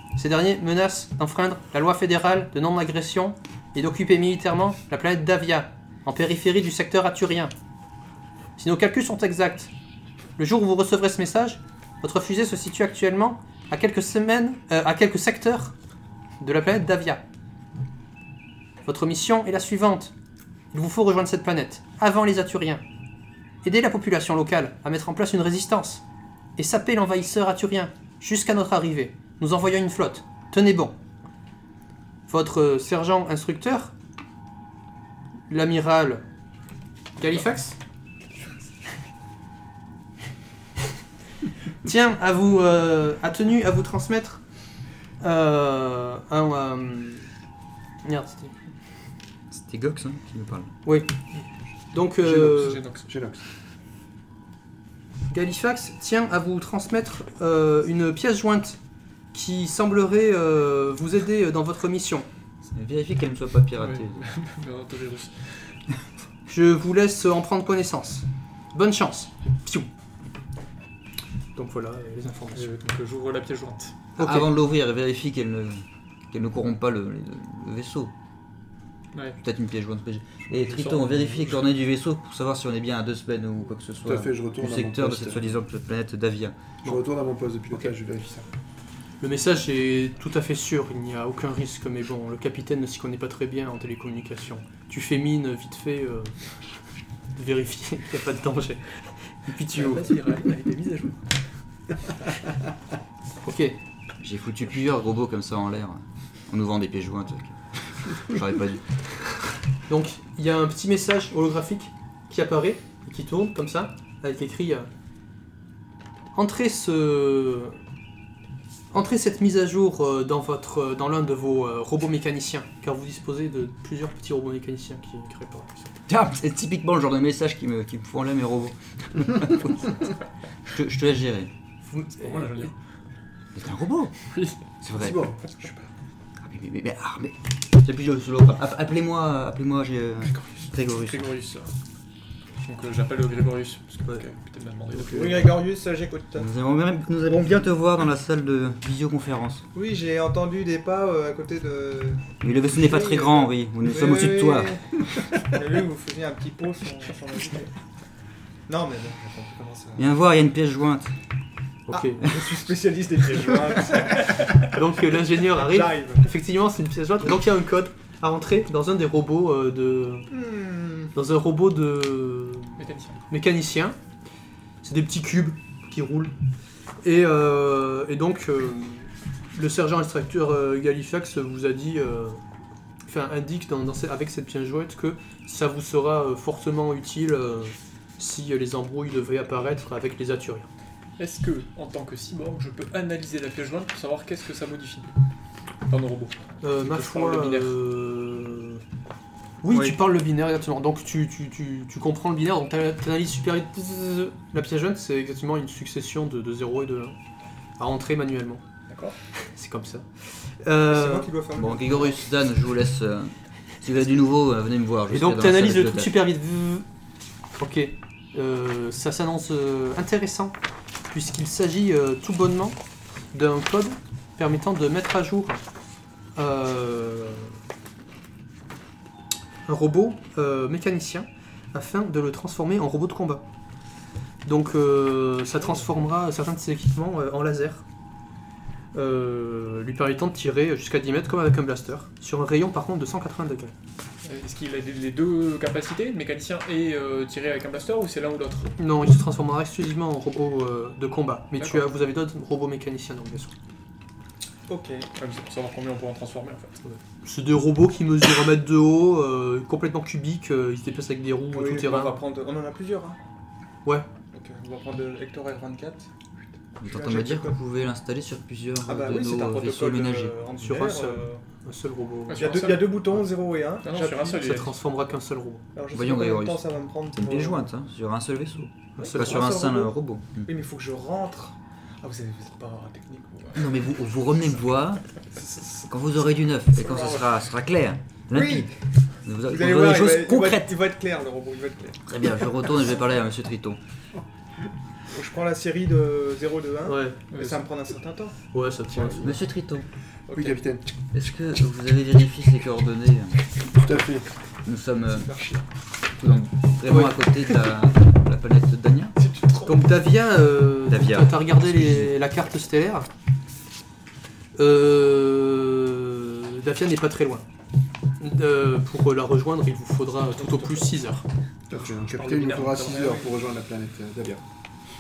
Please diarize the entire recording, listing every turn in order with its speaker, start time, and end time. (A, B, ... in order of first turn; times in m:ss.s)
0:00.2-0:07.5 A
0:08.6-0:09.7 A
0:10.4-0:15.8 A
0:16.4-0:17.2 A
0:18.8-0:20.1 A
0:20.7-0:22.8 A
0:23.6-0:26.0 A
0:26.6-0:31.0 A
0:32.3-0:33.9 A
0:35.5-0:36.2 A
0:37.2-0:37.8 A
0:41.8-0:44.4 A
0:45.2-0:47.3 A
0:48.0-0:48.6 A
0:49.5-0:50.7 B
0:50.8-0:51.1 A
0:51.9-0:52.8 A
0:52.2-0:53.4 C
0:52.3-0:53.1 D
0:55.3-0:58.8 A
0:59.3-1:02.3 A
1:02.6-1:04.2 B
1:03.8-1:05.8 D
1:06.5-1:09.9 A
1:11.6-1:12.7 A
1:12.5-1:14.0 D
1:14.2-1:14.5 A
1:14.2-1:18.1 B
1:19.4-1:26.6 B
1:20.7-1:21.6 D
1:24.0-1:25.4 C
1:26.8-1:28.5 C
1:29.2-1:36.4 A
1:37.4-1:40.1 A
1:39.7-1:41.3 D
1:43.4-1:43.8 A
1:44.2-1:49.4 B
1:49.9-1:54.9 A
1:56.3-1:57.8 A
1:58.9-2:05.9 A
2:06.1-2:10.2 B
2:10.7-2:11.5 B
2:11.9-2:12.7 A
2:12.2-2:12.8 D
2:13.6-2:14.1 B
2:14.3-2:14.6 D
2:14.8-2:15.3 B
2:15.0-2:15.6 C
2:16.4-2:21.3 B
2:21.0-2:21.7 D
2:22.6-2:25.6 D
2:24.9-2:25.6 C
2:25.1-2:26.5 E
2:26.4-2:29.6 B
2:29.7-2:37.7 E
2:32.4-2:34.8 B
2:38.7-2:40.1 E
2:40.0-2:41.1 B
2:41.9-2:42.2 A
2:42.2-2:44.8 E
2:44.6-2:50.3 A
2:45.5-2:46.2 E
2:50.3-2:51.1 E
2:51.1-2:54.0 A
2:52.8-2:53.2 D
2:54.8-2:56.3 A
2:57.0-3:02.4 A
3:03.1-3:10.7 A
3:11.2-3:15.1 D
3:15.9-3:17.7 D
3:16.6-3:18.8 A
3:19.6-3:27.2 A
3:19.7-3:20.0 E
3:27.8-3:28.6 A
3:28.9-3:29.2 D
3:29.4-3:31.3 A
3:30.9-3:32.2 E
3:31.6-3:36.2 B
3:35.1-3:36.9 A
3:37.6-3:40.6 A
3:41.1-3:42.8 A
3:43.3-3:45.6 A
3:46.4-3:47.6 A
3:49.7-3:53.5 A
3:54.4-3:57.8 A
3:58.9-4:03.7 A
4:04.2-4:08.8 D
4:08.8-4:13.5 A
4:11.6-4:11.9 D
4:14.7-4:15.1 E
4:15.2-4:16.8 D
4:16.9-4:22.2 A
4:21.5-4:23.2 E
4:24.3-4:26.1 E
4:26.8-4:27.6 E
4:26.8-4:30.4 B
4:28.8-4:31.4 E
4:30.6-4:32.6 A
4:32.3-4:33.2 D
4:32.4-4:34.5 E
4:33.8-4:34.8 D
4:34.3-4:35.6 A
4:35.7-4:37.7 E
4:35.9-4:40.5 B
4:39.0-4:39.5 A
4:39.0-4:43.9 E
4:43.6-4:45.0 B
4:45.3-4:45.9 E
4:45.9-4:48.7 B
4:46.7-4:47.3 E
4:48.3-4:48.7 E
4:49.2-4:50.7 B
4:49.4-4:52.0 E
4:52.1-4:53.8 B
4:55.1-4:58.4 E
4:56.9-4:57.2 A
4:57.3-4:57.7 D
4:58.5-4:59.4 A
4:59.2-4:59.9 B
5:00.3-5:00.6 E
5:00.3-5:00.8 C
5:01.1-5:03.4 B
5:03.7-5:04.3 C
5:04.6-5:05.3 B
5:05.1-5:05.6 E
5:06.2-5:09.2 B
5:06.9-5:07.2 A
5:09.2-5:09.9 E
5:09.7-5:13.1 A
5:10.9-5:12.1 B
5:14.6-5:17.5 A
5:18.2-5:21.2 A
5:21.7-5:24.4 C
5:21.9-5:23.3 D